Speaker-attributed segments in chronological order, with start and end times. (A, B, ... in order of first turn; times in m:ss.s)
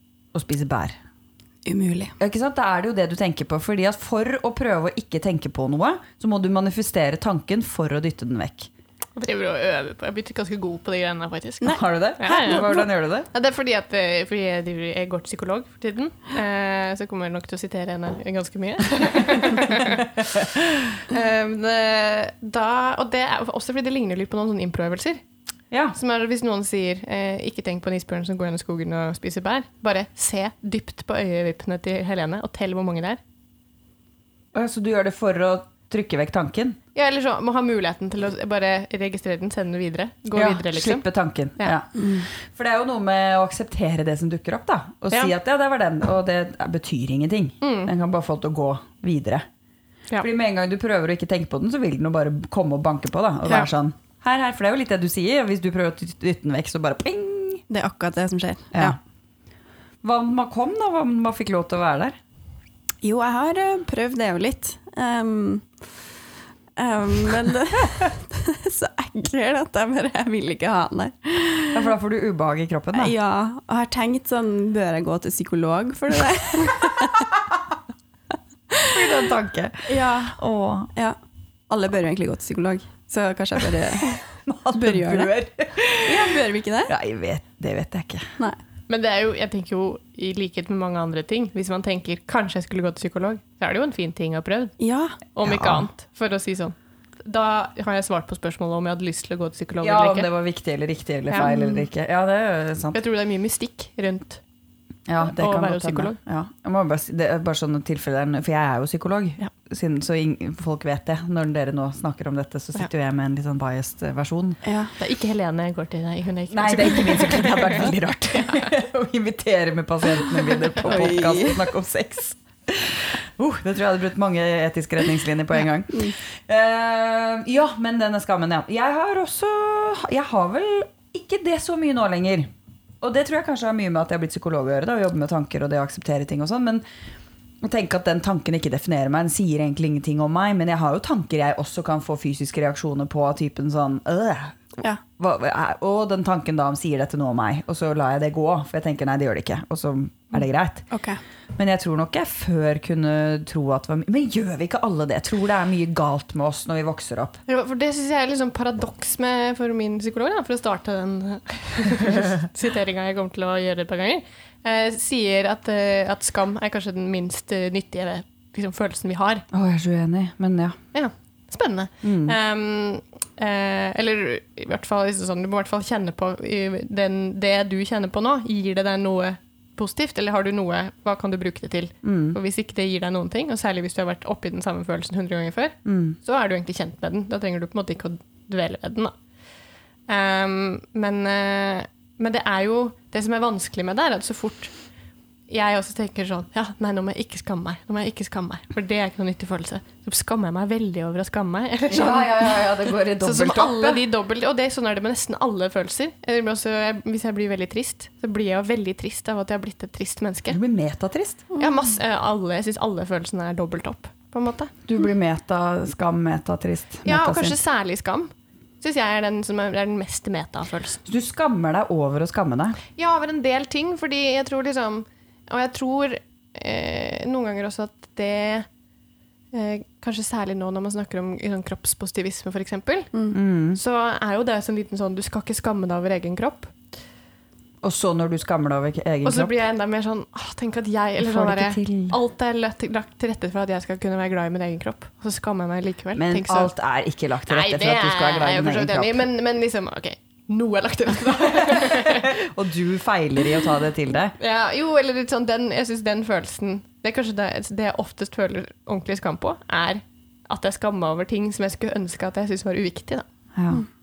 0:00.3-0:01.0 A
0:01.6-0:02.1 B
0:02.2-0:08.7 A
0:09.2-0:20.4 C
0:11.6-0:13.3 A
0:12.3-0:12.8 B
0:20.2-0:20.6 A
0:20.9-0:25.2 C
0:25.7-0:26.0 A
0:26.0-0:33.2 C
0:34.5-0:36.8 A
0:37.0-0:41.0 C
0:40.4-0:49.5 A
0:42.0-0:42.3 B
0:47.6-0:47.9 C
0:50.2-0:57.6 A
0:57.7-0:59.0 B
1:00.0-1:02.2 A
1:03.0-1:05.7 B
1:06.8-1:11.9 B
1:11.7-1:13.1 A
1:12.9-1:17.3 B
1:18.9-1:20.9 A
1:19.9-1:20.4 B
1:21.7-1:24.2 B
1:24.4-1:28.3 A
1:24.7-1:25.3 B
1:26.0-1:26.9 B
1:28.9-1:34.8 C
1:34.8-1:35.2 B
1:35.3-1:40.3 C
1:35.4-1:35.9 A
1:39.8-1:43.0 A
1:41.4-1:41.8 B
1:42.9-1:44.4 C
1:45.1-1:54.6 A
1:45.2-1:46.2 C
1:54.6-1:54.9 B
1:55.0-1:58.6 C
1:56.5-2:12.5 A
2:00.8-2:01.6 B
2:13.0-2:16.8 A
2:17.6-2:30.9 A
2:30.9-2:31.2 B
2:31.6-2:37.4 A
2:37.5-2:49.5 C
2:49.5-2:50.8 A
2:50.9-3:09.2 C
2:52.0-2:52.4 A
3:02.0-3:02.4 A
3:05.8-3:06.2 A
3:10.1-3:14.7 C
3:15.5-3:30.6 C
3:21.9-3:24.0 A
3:30.5-3:31.4 A
3:31.6-3:34.7 C
3:34.9-3:37.6 A
3:37.0-3:41.0 C
3:41.0-3:42.8 A
3:42.9-3:48.7 C
3:49.5-3:56.7 C
3:53.3-3:53.8 A
3:57.8-3:59.5 A
3:59.2-4:06.7 C
4:01.2-4:02.2 A
4:06.2-4:09.2 A
4:07.5-4:12.3 C
4:12.0-4:14.4 A
4:14.4-4:23.2 C
4:23.6-4:23.9 A